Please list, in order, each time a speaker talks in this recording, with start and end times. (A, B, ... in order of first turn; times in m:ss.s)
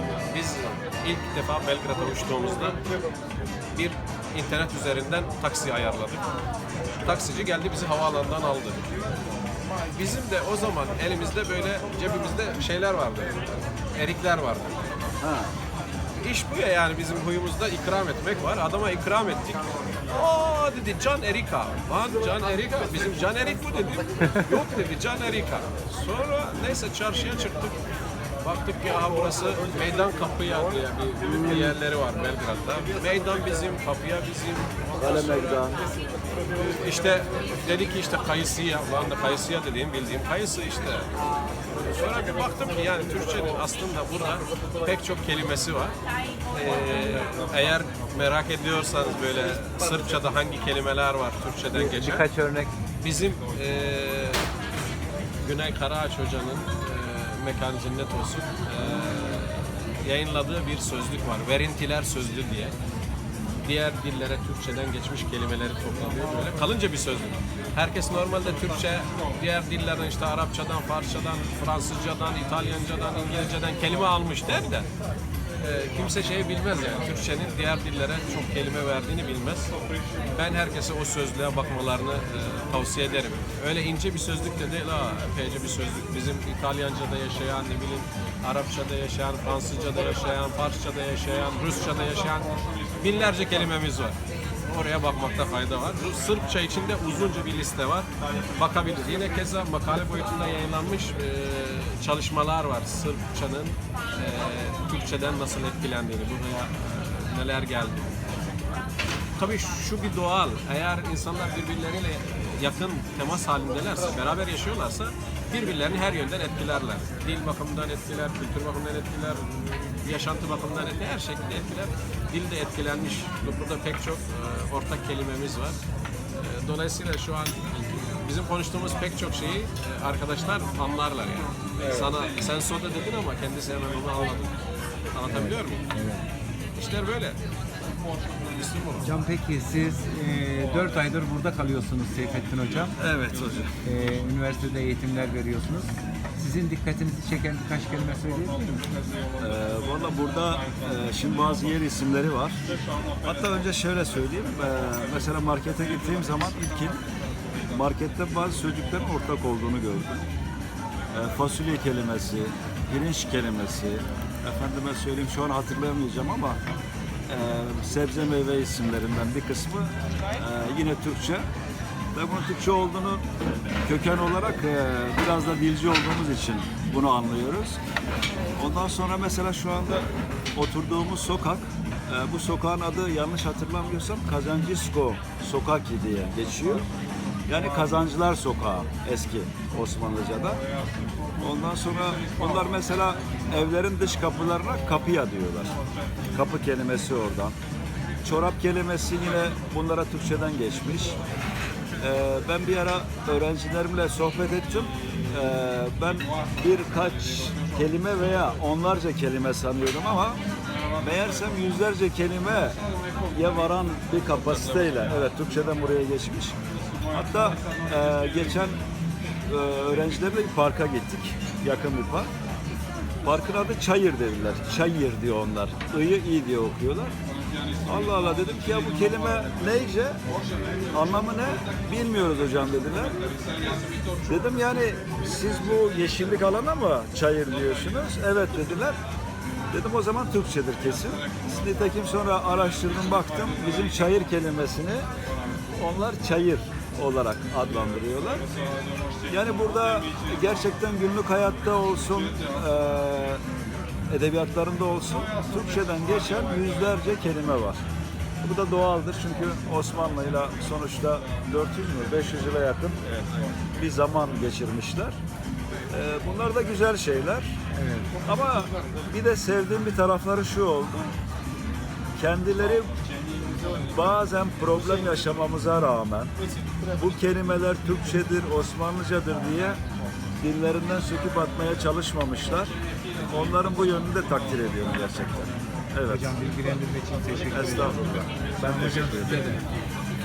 0:00.3-0:02.8 A
0:03.8-0:06.2 A
0:07.0-0:08.9 A
0:09.9-0:14.8 A
0:15.2-0:15.5 B
0:16.2-0:27.8 A
0:28.4-0:35.4 A
0:35.0-0:35.8 B
0:36.6-0:41.1 A
0:41.8-0:46.0 A
0:46.5-0:52.2 A
0:51.7-0:52.7 C
0:53.0-0:54.5 A
0:55.4-1:02.8 A
1:03.6-1:14.9 A
1:15.6-1:19.7 A
1:20.3-1:32.5 A
1:33.0-1:48.2 A
1:49.4-2:05.8 A
2:06.4-2:14.5 A
2:15.1-2:15.8 A
2:15.3-2:16.2 C
2:16.8-2:17.4 A
2:18.5-2:19.2 A
2:19.0-2:23.0 C
2:23.0-2:23.8 B
2:23.8-2:28.8 C
2:29.4-2:32.6 B
2:33.2-2:37.0 B
2:37.7-2:40.2 B
2:41.1-2:46.6 B
2:47.3-2:51.5 B
2:52.1-2:53.2 B
2:53.8-2:57.8 B
2:58.5-3:06.8 B
3:07.5-3:10.6 B
3:11.4-3:15.8 B
3:16.3-3:17.6 B
3:18.2-3:21.2 B
3:22.0-3:30.4 B
3:31.0-3:32.8 B
3:33.3-3:36.6 B
3:37.1-3:38.8 B
3:39.5-3:42.3 B
3:43.2-3:47.1 B
3:47.8-3:50.2 B
3:50.9-3:53.2 B
3:54.3-3:59.0 B
3:59.7-4:05.1 B
4:05.8-4:08.5 B
4:09.3-4:13.4 B
4:14.1-4:17.8 B
4:18.4-4:25.2 B
4:25.9-4:27.6 B
4:27.7-4:28.2 C
4:28.2-4:31.1 B
4:32.2-4:33.0 B
4:33.9-4:36.3 B
4:36.9-4:39.8 B
4:40.4-4:42.8 B
4:43.3-4:46.4 B
4:46.1-4:49.6 C
4:47.5-4:49.5 B